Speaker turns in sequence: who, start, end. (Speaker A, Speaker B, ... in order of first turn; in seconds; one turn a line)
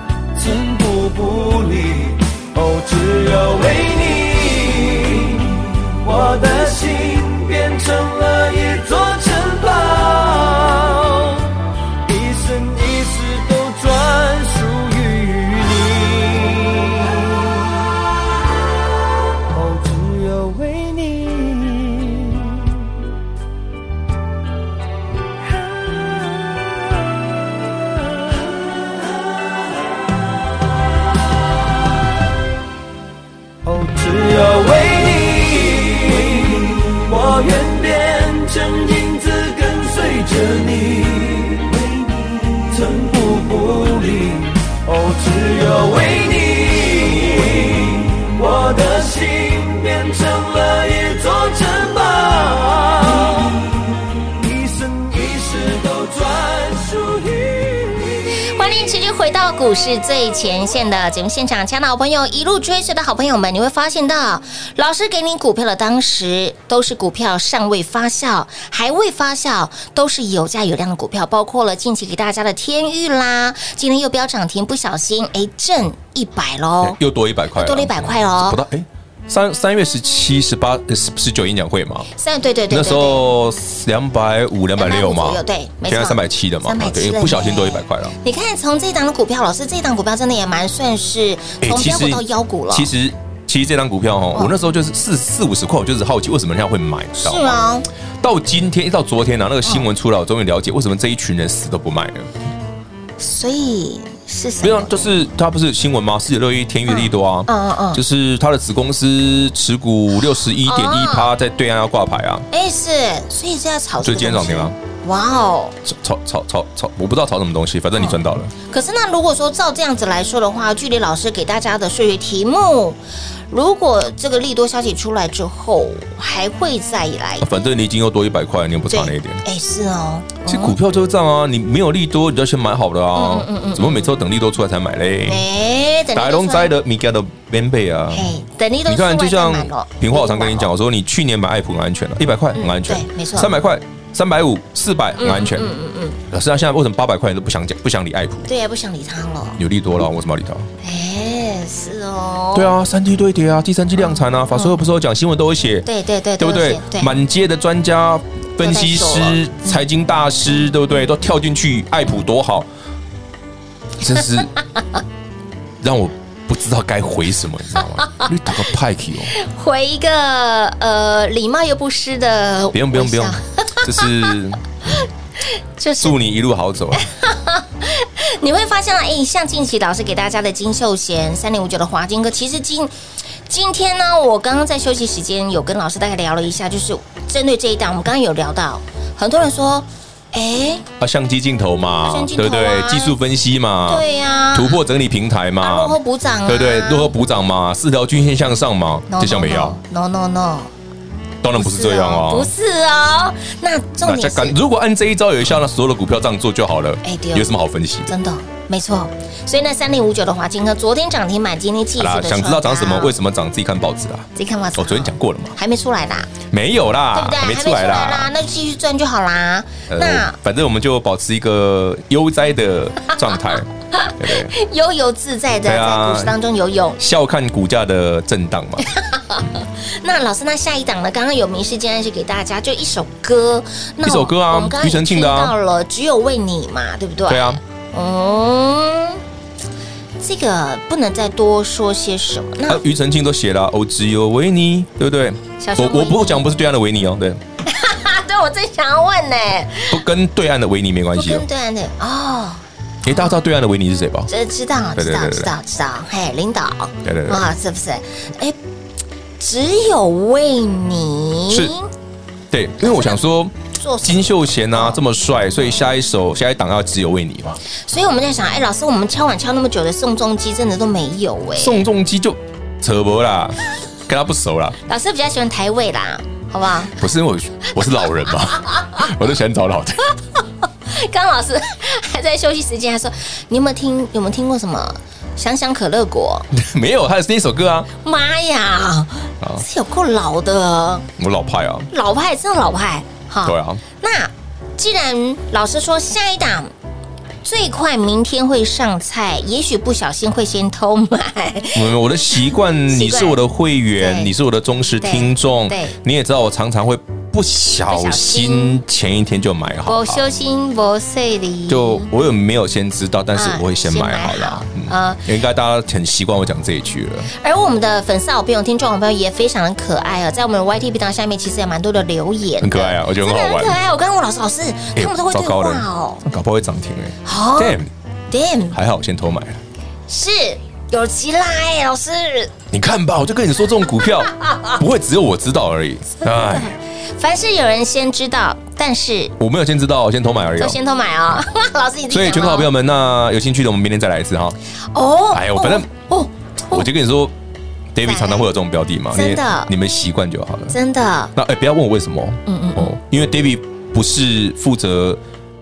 Speaker A: 0.3-11.5
Speaker A: 12.0-17.9
Speaker A: 19.5-23.0
Speaker A: 25.4-29.1
Speaker A: 33.6-53.7
Speaker A: 54.2-58.3
Speaker B: 58.4-77.0
Speaker C: 76.8-82.1
Speaker B: 77.5-78.6
Speaker B: 82.2-83.2
Speaker C: 82.7-88.1
Speaker B: 84.8-92.9
Speaker C: 91.6-97.6
Speaker B: 97.2-97.9
Speaker C: 98.2-102.3
Speaker B: 103.2-105.2
Speaker C: 104.6-112.4
Speaker B: 106.9-108.0
Speaker B: 110.6-111.3
Speaker B: 112.5-115.8
Speaker C: 114.0-114.8
Speaker C: 115.8-118.5
Speaker B: 118.7-123.0
Speaker B: 123.5-127.5
Speaker C: 127.4-129.4
Speaker B: 128.9-130.8
Speaker C: 130.4-135.4
Speaker B: 133.1-134.1
Speaker B: 135.2-136.7
Speaker C: 136.1-138.3
Speaker B: 138.1-140.7
Speaker C: 138.8-145.7
Speaker B: 142.5-143.5
Speaker B: 145.2-146.2
Speaker C: 146.3-148.5
Speaker B: 148.5-149.6
Speaker C: 149.6-150.7
Speaker B: 150.8-152.7
Speaker C: 152.5-155.9
Speaker B: 154.0-154.8
Speaker B: 155.8-157.2
Speaker C: 156.4-162.7
Speaker B: 158.6-159.8
Speaker C: 164.0-164.5
Speaker C: 165.8-169.3
Speaker B: 168.0-168.3
Speaker B: 169.3-174.3
Speaker C: 172.7-174.9
Speaker B: 175.8-176.2
Speaker C: 176.0-177.0
Speaker B: 176.9-182.9
Speaker B: 183.5-190.8
Speaker C: 191.0-199.8
Speaker B: 192.0-193.2
Speaker B: 193.8-194.8
Speaker B: 195.6-197.1
Speaker B: 199.1-200.7
Speaker C: 201.4-202.5
Speaker B: 201.5-204.6
Speaker C: 204.0-208.1
Speaker B: 207.0-207.5
Speaker B: 208.1-213.1
Speaker C: 212.0-215.6
Speaker B: 214.3-216.3
Speaker C: 216.5-218.3
Speaker B: 217.1-220.4
Speaker C: 219.9-223.7
Speaker B: 223.9-227.0
Speaker C: 224.2-224.5
Speaker C: 225.6-226.3
Speaker C: 227.0-228.8
Speaker B: 228.8-239.2
Speaker C: 234.0-235.5
Speaker C: 237.3-237.6
Speaker B: 240.2-242.8
Speaker C: 242.7-247.4
Speaker B: 245.6-246.4
Speaker B: 247.6-250.0
Speaker C: 249.9-251.4
Speaker B: 251.1-253.4
Speaker C: 253.0-254.3
Speaker B: 254.3-258.6
Speaker C: 254.9-255.5
Speaker C: 257.0-257.5
Speaker B: 259.4-261.9
Speaker C: 261.5-261.7
Speaker C: 262.5-267.6
Speaker B: 262.8-265.0
Speaker B: 267.9-271.8
Speaker C: 271.6-274.8
Speaker B: 274.9-276.9
Speaker C: 276.9-280.0
Speaker B: 277.9-279.1
Speaker B: 280.4-286.5
Speaker C: 286.5-287.9
Speaker B: 288.0-291.1
Speaker C: 291.2-291.9
Speaker B: 291.9-296.7
Speaker C: 293.4-293.8
Speaker B: 297.4-303.4
Speaker C: 301.7-310.2
Speaker B: 303.9-304.3
Speaker B: 305.0-305.9
Speaker B: 307.9-308.8
Speaker B: 309.8-312.1
Speaker C: 311.7-317.3
Speaker B: 313.3-315.2
Speaker B: 317.3-326.2
Speaker C: 322.6-323.8
Speaker C: 324.9-327.9
Speaker B: 327.2-328.8
Speaker C: 328.7-329.6
Speaker B: 330.1-332.5
Speaker C: 332.7-336.7
Speaker B: 334.3-334.8
Speaker B: 336.2-339.3
Speaker C: 339.4-340.8
Speaker B: 340.6-342.7
Speaker C: 342.1-344.6
Speaker B: 344.9-346.9
Speaker C: 345.3-345.9
Speaker C: 346.7-347.3
Speaker C: 347.9-350.8
Speaker B: 348.0-348.5
Speaker B: 349.1-349.7
Speaker B: 350.7-351.3
Speaker C: 351.3-355.2
Speaker B: 352.4-352.9